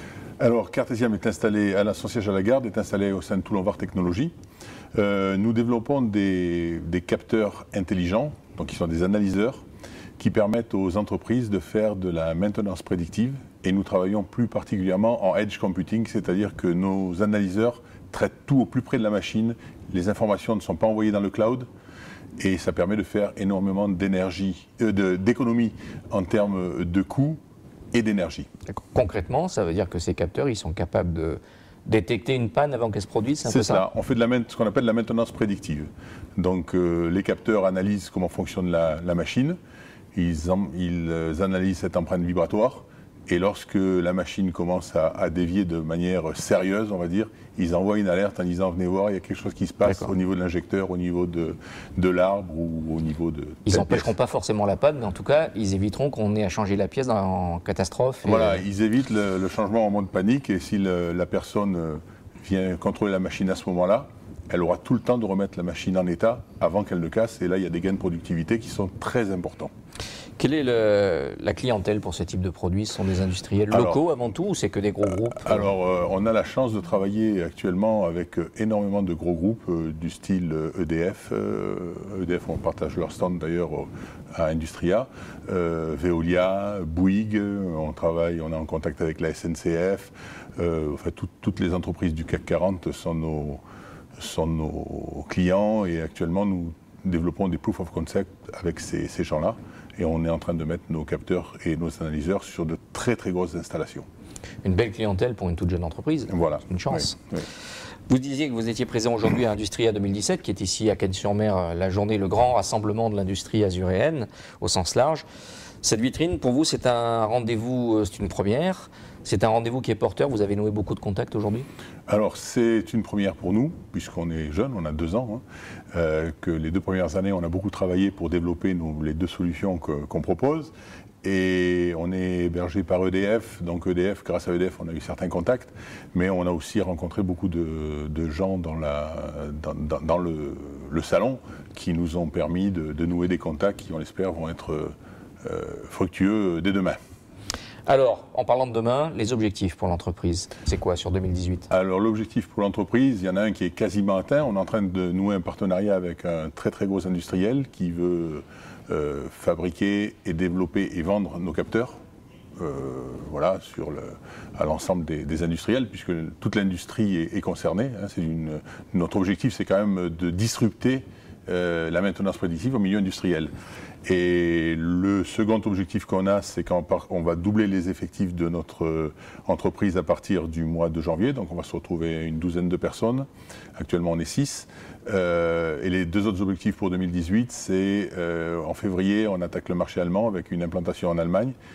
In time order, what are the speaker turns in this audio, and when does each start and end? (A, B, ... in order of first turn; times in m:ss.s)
0:00.4-0:04.3 A
0:04.9-0:09.6 A
0:10.2-0:21.7 A
0:22.4-0:27.4 A
0:27.9-0:28.5 A
0:28.7-0:33.8 B
0:33.4-0:39.6 A
0:40.1-0:54.1 A
0:49.8-0:50.1 B
0:53.7-0:58.6 B
0:58.2-1:09.7 A
1:10.4-1:15.7 B
1:13.7-1:14.0 A
1:15.0-1:33.6 A
1:34.2-1:44.1 A
1:44.6-1:47.2 B
1:46.3-1:47.5 A
1:48.1-1:55.2 B
1:55.8-2:01.7 B
2:02.1-2:05.4 A
2:05.9-2:10.7 A
2:11.2-2:27.0 A
2:27.9-2:31.7 B
2:31.7-2:42.0 A
2:42.6-2:53.5 A
2:54.0-3:11.6 A